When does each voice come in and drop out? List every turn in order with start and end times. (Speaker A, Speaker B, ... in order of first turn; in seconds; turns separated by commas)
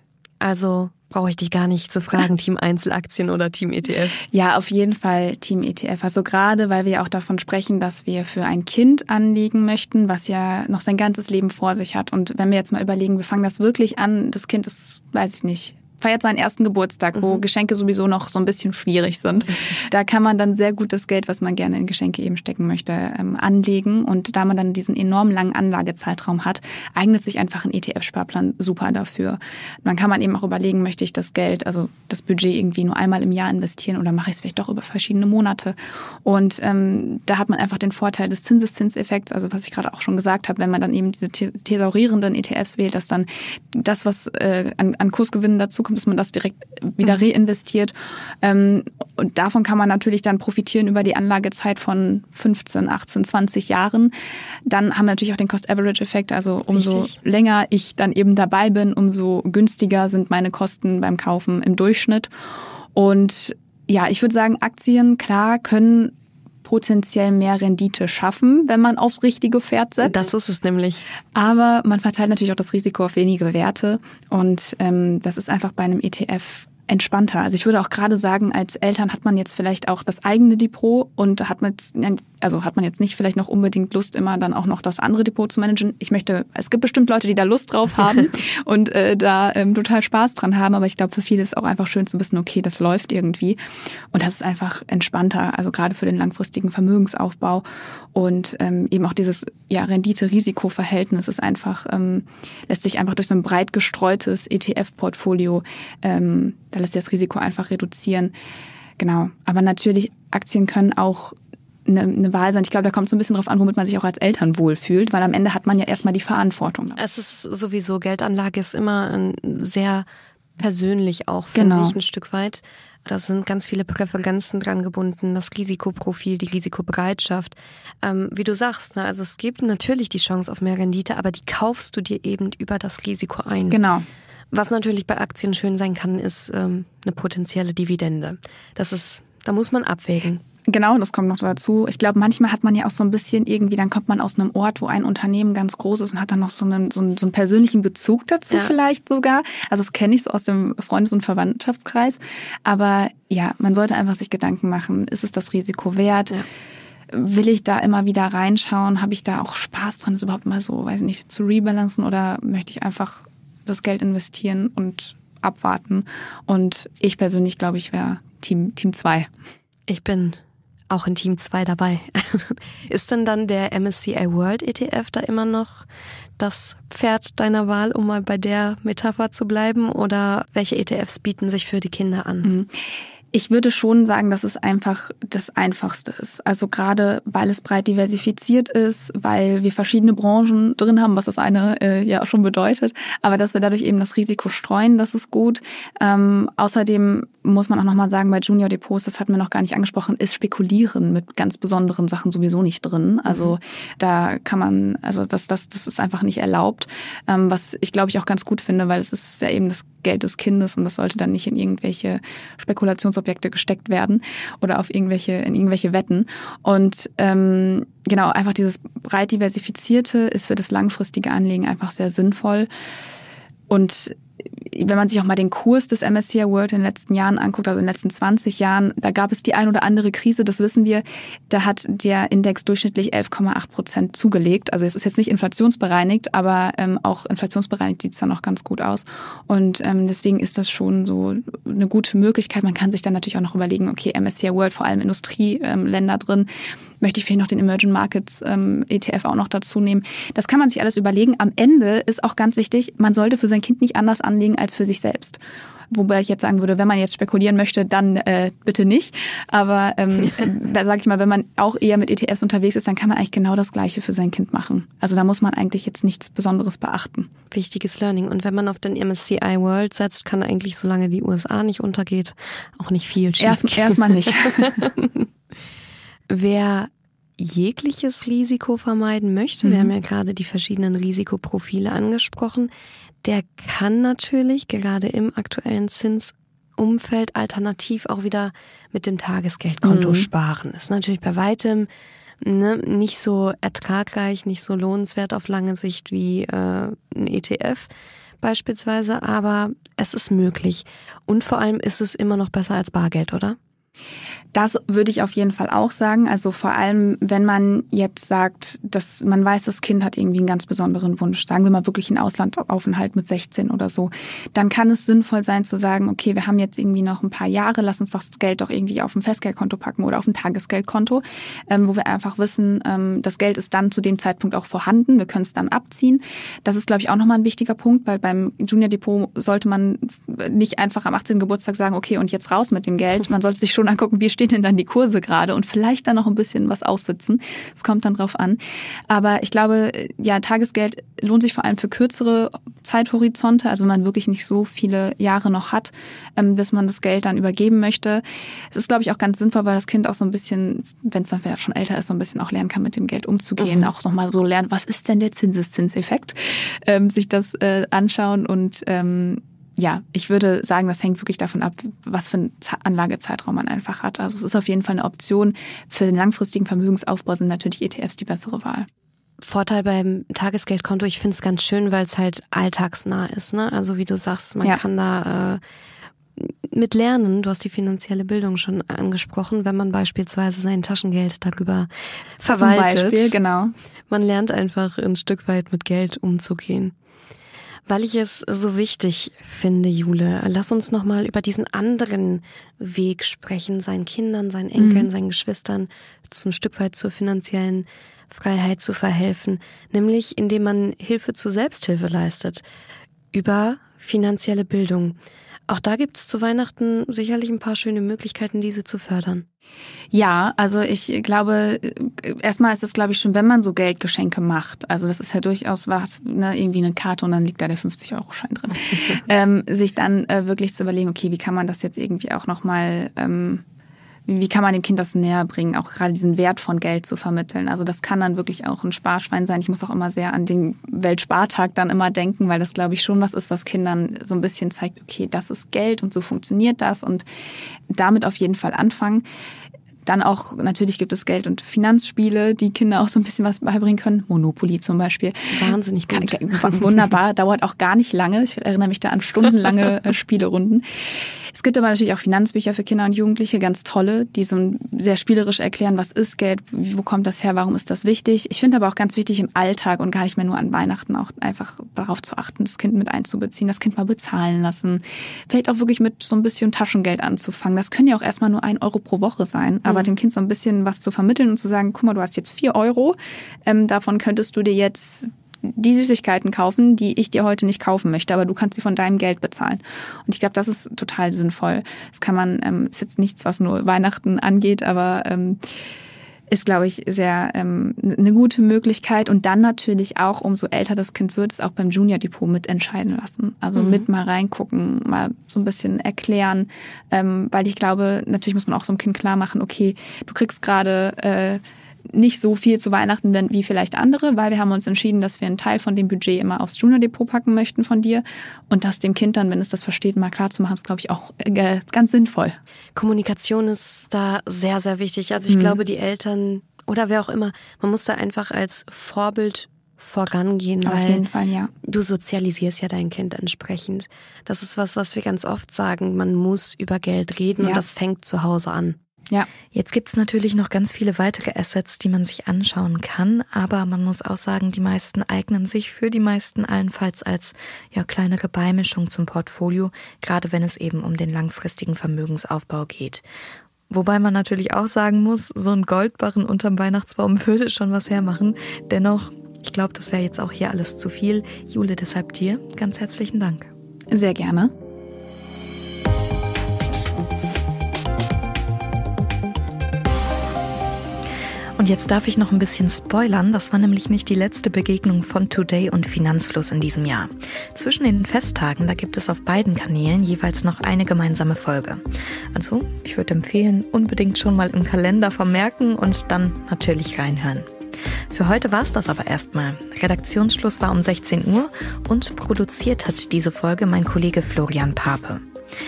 Speaker A: 0.4-4.2, Speaker B: 4.3-54.1, Speaker B: 54.7-62.3, Speaker A: 56.7-57.2, Speaker B: 63.0-66.1, Speaker B: 66.7-70.3, Speaker A: 70.0-71.0, Speaker B: 71.3-93.6, Speaker B: 94.1-97.6, Speaker B: 98.2-108.3, Speaker B: 109.0-117.0, Speaker A: 117.0-120.1, Speaker A: 120.6-133.8, Speaker B: 121.5-122.0, Speaker B: 133.7-134.1, Speaker A: 134.5-140.4, Speaker B: 140.7-156.4, Speaker B: 157.1-169.3, Speaker A: 169.9-175.9, Speaker A: 176.4-182.5, Speaker B: 182.4-182.7, Speaker B: 183.3-222.7, Speaker A: 203.3-203.5, Speaker B: 223.7-246.5, Speaker B: 247.0-255.4, Speaker B: 255.9-267.3, Speaker A: 267.5-275.3, Speaker B: 273.4-274.9, Speaker A: 276.3-282.7, Speaker B: 279.6-279.9, Speaker A: 283.2-291.9, Speaker B: 289.8-290.3, Speaker A: 292.4-297.9, Speaker A: 298.4-303.6, Speaker B: 304.5-338.6, Speaker B: 339.1-368.9, Speaker A: 353.6-353.9, Speaker A: 369.4-375.6, Speaker A: 376.4-383.3, Speaker B: 382.5-383.8, Speaker A: 384.1-386.9, Speaker A: 387.9-402.6, Speaker B: 394.8-395.1, Speaker A: 403.3-409.5, Speaker B: 410.1-423.6, Speaker B: 424.3-437.2, Speaker B: 437.9-439.2, Speaker B: 440.1-450.8, Speaker A: 445.5-446.9, Speaker B: 451.5-485.6, Speaker B: 486.5-512.5, Speaker A: 513.0-521.2, Speaker B: 515.5-515.8, Speaker B: 520.9-521.7, Speaker A: 521.8-529.0, Speaker C: 529.7-543.2, Speaker C: 543.9-553.7, Speaker B: 554.1-554.7, Speaker C: 561.8-577.7, Speaker C: 578.3-585.4